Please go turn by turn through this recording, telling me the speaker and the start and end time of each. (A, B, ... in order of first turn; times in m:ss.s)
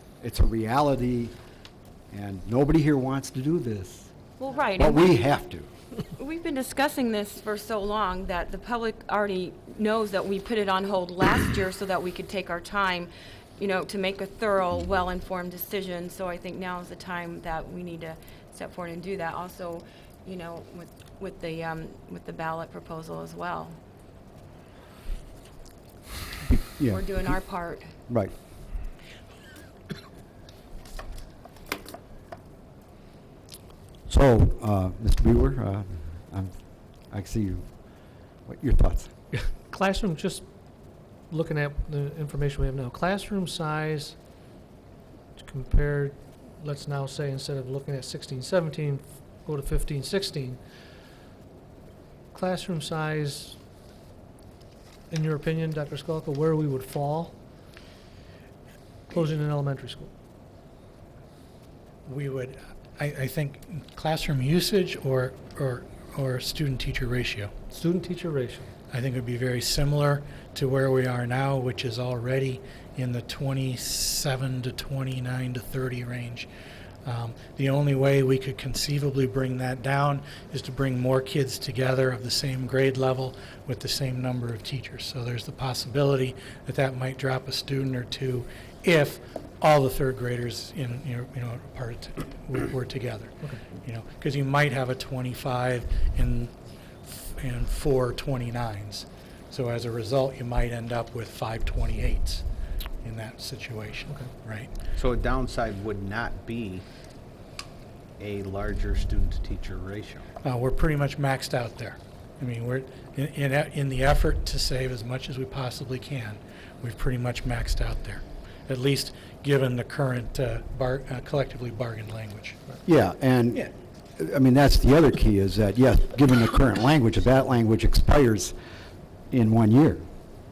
0:00.2-0:01.4 A
0:02.1-0:04.1 A
0:04.4-0:05.1 B
0:04.8-0:05.7 A
0:06.2-0:23.8 B
0:26.5-0:27.4 A
0:26.9-0:27.9 B
0:28.1-0:28.3 A
0:34.1-0:36.5 A
0:37.1-0:37.7 A
0:38.5-0:39.1 A
0:39.7-0:40.4 C
0:41.3-0:44.2 C
0:45.4-0:50.6 C
0:52.3-0:53.6 C
0:55.1-0:57.4 C
0:59.1-1:00.1 C
1:02.1-1:07.5 D
1:07.7-1:08.7 C
1:08.9-1:16.5 D
1:17.0-1:36.5 D
1:37.0-1:42.4 D
1:43.0-1:44.7 D
1:45.0-1:46.8 E
1:48.2-1:50.2 E
1:50.4-2:02.6 D
2:02.8-2:03.6 A
2:04.2-2:08.6 A
2:09.3-2:10.0 A